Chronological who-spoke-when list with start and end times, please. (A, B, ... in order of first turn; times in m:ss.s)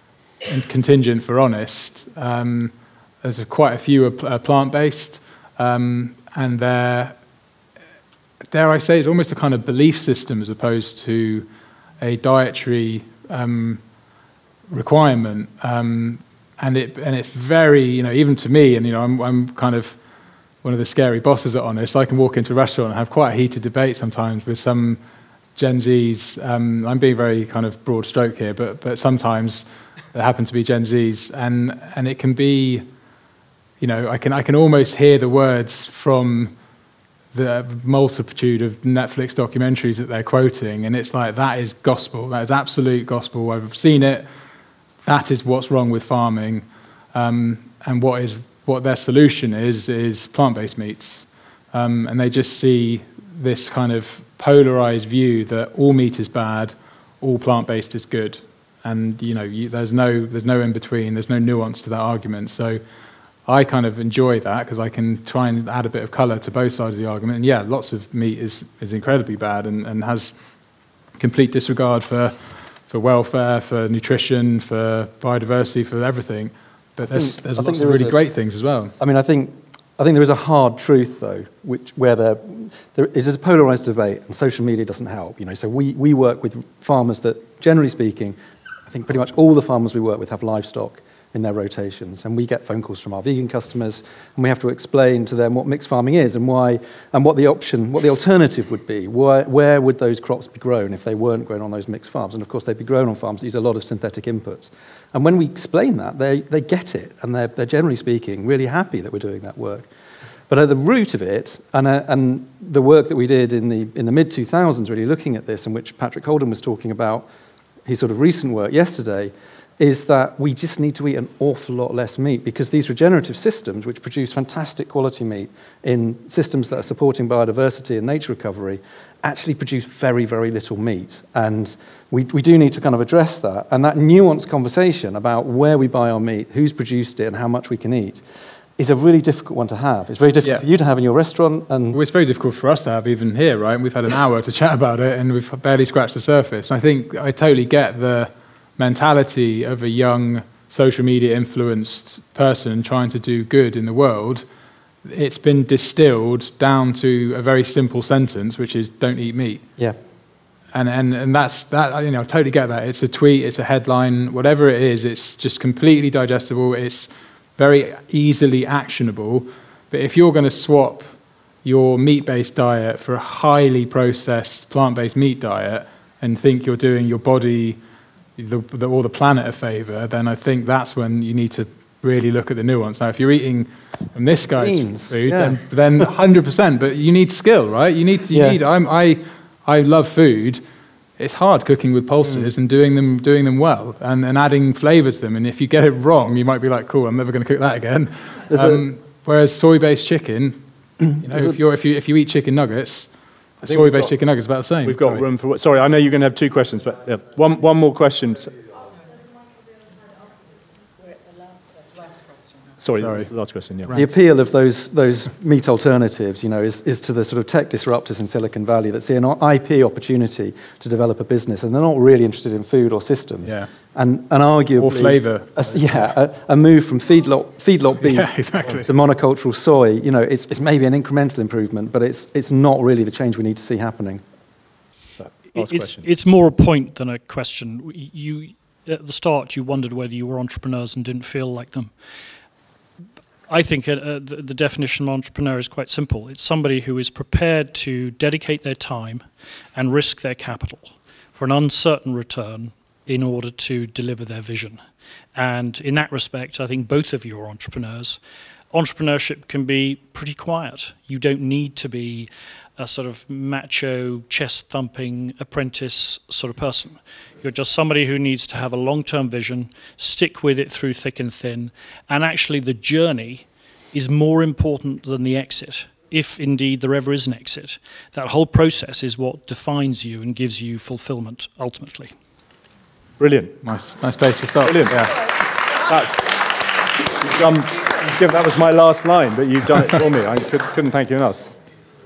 0:00.4-0:07.2 A
0:08.5-0:11.5 A
0:12.0-0:13.8 A
0:14.7-0:20.0 A
0:20.6-0:25.0 A
0:25.6-0:32.8 A
0:33.8-0:36.5 A
0:37.3-0:44.3 A
0:45.0-1:02.8 A
1:03.5-1:10.4 A
1:11.2-1:18.9 A
1:17.1-1:18.2 B
1:19.0-1:49.9 B
1:50.5-1:57.3 B
1:57.9-2:18.2 B
2:18.8-2:22.0 B
2:21.9-2:34.4 A
2:35.0-2:39.7 A
2:40.7-2:51.1 A
2:51.6-2:57.8 A
2:58.4-3:10.6 A
3:04.6-3:05.6 B
3:08.3-3:08.6 B
3:11.2-3:20.6 A
3:18.5-3:18.9 B
3:21.1-3:25.2 A
3:21.3-3:21.6 B
3:23.6-3:24.1 C
3:24.8-3:28.6 C
3:32.8-3:34.0 C
3:33.0-3:33.3 A
3:33.9-3:54.2 B
3:43.5-3:43.7 A
3:44.8-3:46.1 A
3:48.0-3:48.9 A
3:55.2-3:56.1 C
3:55.5-4:02.0 D
4:03.5-4:14.8 D
4:15.4-4:18.2 D
4:18.7-4:42.1 D
4:43.2-4:43.6 C
4:43.6-4:45.2 A
4:44.6-4:45.0 C
4:45.8-4:46.4 C
4:47.2-4:51.5 C